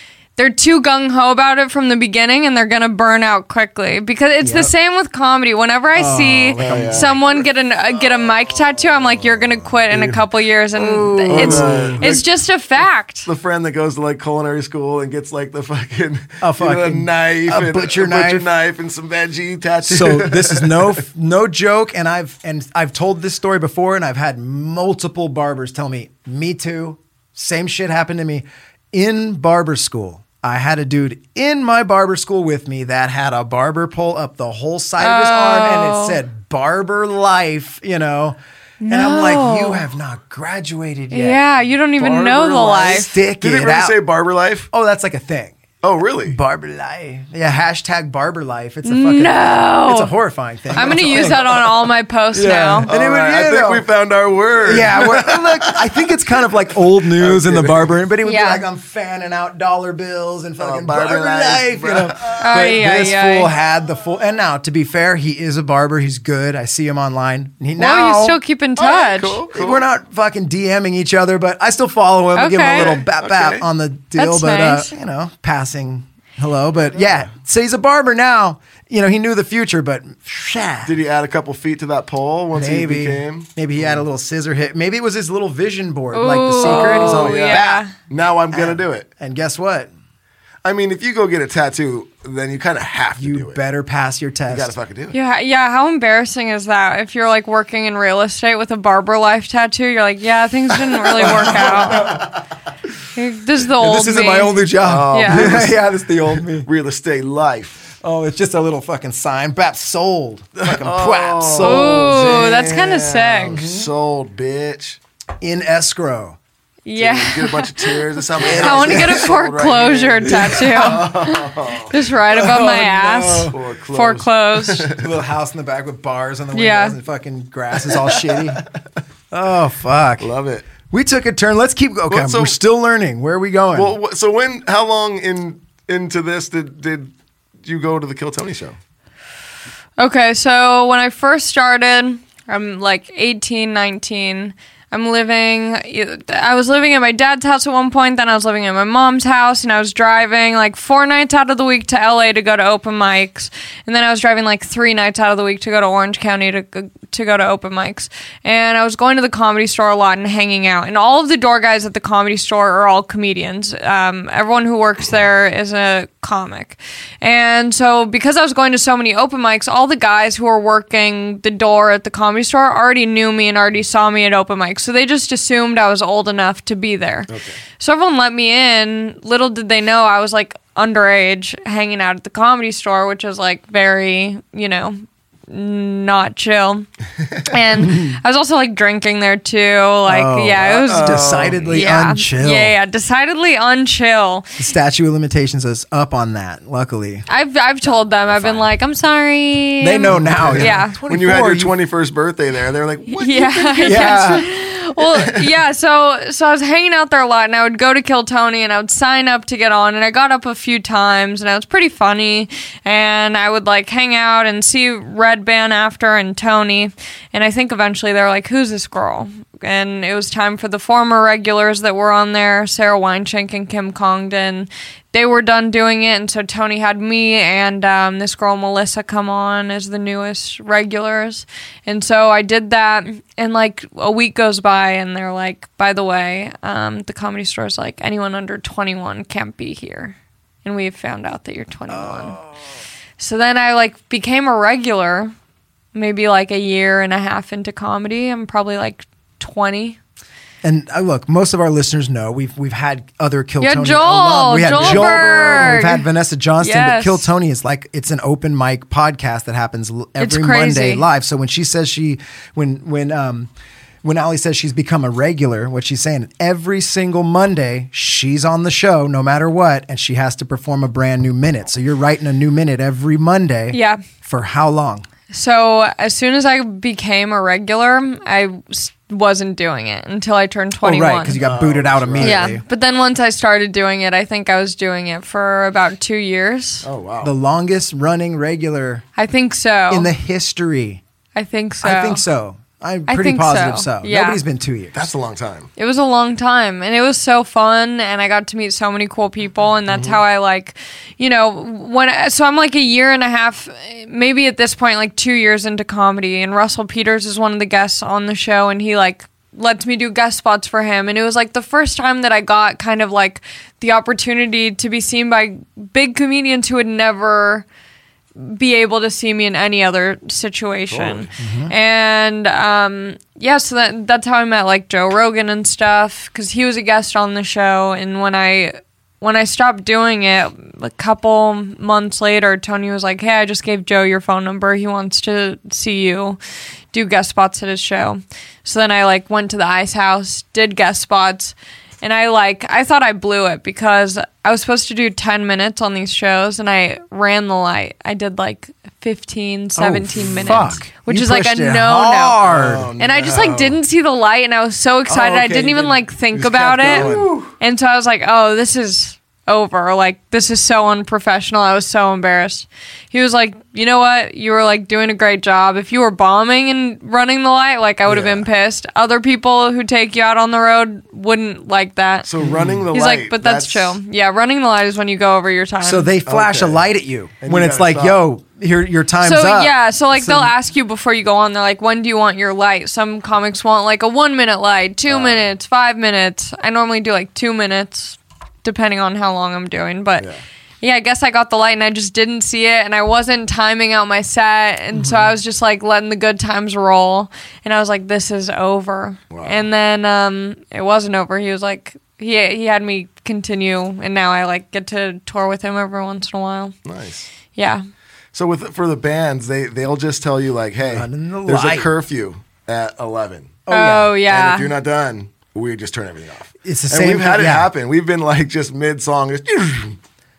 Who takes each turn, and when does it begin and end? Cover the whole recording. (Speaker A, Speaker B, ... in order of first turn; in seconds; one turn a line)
Speaker A: 0.4-13.3
Speaker B: 4.4-4.7
Speaker B: 6.0-7.2
Speaker C: 6.6-10.2
Speaker B: 10.8-12.1
Speaker C: 11.3-12.3
Speaker C: 13.2-21.0
Speaker B: 16.4-18.5
Speaker B: 19.8-41.4
Speaker A: 35.0-36.2
Speaker A: 38.8-39.9
Speaker A: 41.1-43.1
Speaker C: 42.0-42.9
Speaker B: 42.3-44.0
Speaker C: 43.4-44.7
Speaker B: 44.7-45.6
Speaker C: 45.8-46.4
Speaker B: 46.2-51.6
Speaker A: 48.9-50.1
Speaker C: 50.7-51.8
Speaker A: 50.7-52.9
Speaker B: 52.3-53.9
Speaker C: 52.9-56.2
Speaker B: 54.6-68.4
Speaker C: 57.0-57.9
Speaker A: 58.2-58.6
Speaker C: 60.6-62.7
Speaker A: 62.4-63.5
Speaker A: 67.8-69.4
Speaker C: 68.8-69.8
Speaker B: 69.5-80.9
Speaker A: 72.3-72.9
Speaker C: 72.8-73.7
Speaker A: 74.2-74.9
Speaker C: 77.0-77.3
Speaker C: 80.8-84.0
Speaker B: 82.5-87.8
Speaker A: 86.1-87.9
Speaker C: 86.6-89.1
Speaker B: 88.5-89.9
Speaker C: 90.7-93.6
Speaker B: 93.2-94.7
Speaker C: 94.5-95.2
Speaker A: 95.1-102.1
Speaker C: 101.2-102.4
Speaker A: 103.2-104.6
Speaker B: 103.8-106.7
Speaker C: 104.8-107.9
Speaker A: 105.1-105.5
Speaker B: 108.0-112.5
Speaker C: 110.6-115.0
Speaker A: 111.6-113.6
Speaker B: 113.5-113.9
Speaker B: 115.4-116.4
Speaker A: 116.8-124.9
Speaker C: 117.0-125.1
Speaker B: 118.4-119.3
Speaker B: 120.3-121.1
Speaker B: 122.3-123.5
Speaker B: 125.0-128.6
Speaker A: 126.5-127.0
Speaker C: 127.9-128.4
Speaker B: 129.3-130.3
Speaker C: 130.2-130.7
Speaker B: 130.9-134.0
Speaker C: 132.1-132.6
Speaker C: 133.7-137.1
Speaker C: 137.6-138.8
Speaker A: 140.0-186.9
Speaker C: 177.3-177.6
Speaker A: 187.5-194.6
Speaker B: 187.8-188.2
Speaker B: 190.1-192.8
Speaker C: 190.7-191.7
Speaker B: 194.6-197.3
Speaker A: 197.3-201.0
Speaker C: 198.0-198.7
Speaker B: 199.8-201.7
Speaker C: 200.1-205.5
Speaker A: 203.1-242.4
Speaker B: 203.8-204.5
Speaker B: 241.9-242.6
Speaker A: 243.2-245.3
Speaker A: 245.9-250.0
Speaker B: 250.6-263.5
Speaker A: 253.6-256.0
Speaker C: 254.7-255.7
Speaker A: 256.6-257.3
Speaker A: 260.2-261.1
Speaker B: 264.0-275.1
Speaker A: 273.7-274.0
Speaker A: 275.3-281.4
Speaker B: 280.8-282.6
Speaker C: 281.4-282.6
Speaker A: 282.2-286.9
Speaker C: 286.8-287.3
Speaker B: 287.2-289.1
Speaker A: 289.2-290.1
Speaker B: 289.9-291.0
Speaker A: 291.4-292.2
Speaker B: 291.8-295.0
Speaker A: 293.1-294.4
Speaker C: 294.9-295.7
Speaker A: 295.8-317.7
Speaker C: 299.9-300.2
Speaker A: 318.4-336.4
Speaker C: 320.9-321.3
Speaker B: 321.4-321.7
Speaker A: 336.9-352.4
Speaker B: 349.8-352.9
Speaker C: 350.2-350.8
Speaker C: 352.4-353.8
Speaker A: 353.0-372.3
Speaker C: 355.1-357.3
Speaker B: 356.9-357.5
Speaker C: 368.1-368.5
Speaker C: 372.3-374.0
Speaker B: 372.4-372.9
Speaker A: 372.9-376.1
Speaker B: 375.8-380.5
Speaker C: 376.3-376.8
Speaker C: 377.4-378.2
Speaker A: 379.2-390.3
Speaker C: 385.1-385.5
Speaker A: 390.8-406.8
Speaker B: 394.9-395.3
Speaker C: 399.3-399.6
Speaker C: 406.9-407.3
Speaker A: 407.6-407.8
Speaker C: 408.3-420.0
Speaker B: 410.9-411.9
Speaker B: 413.7-414.1
Speaker A: 413.7-414.7
Speaker B: 416.6-417.7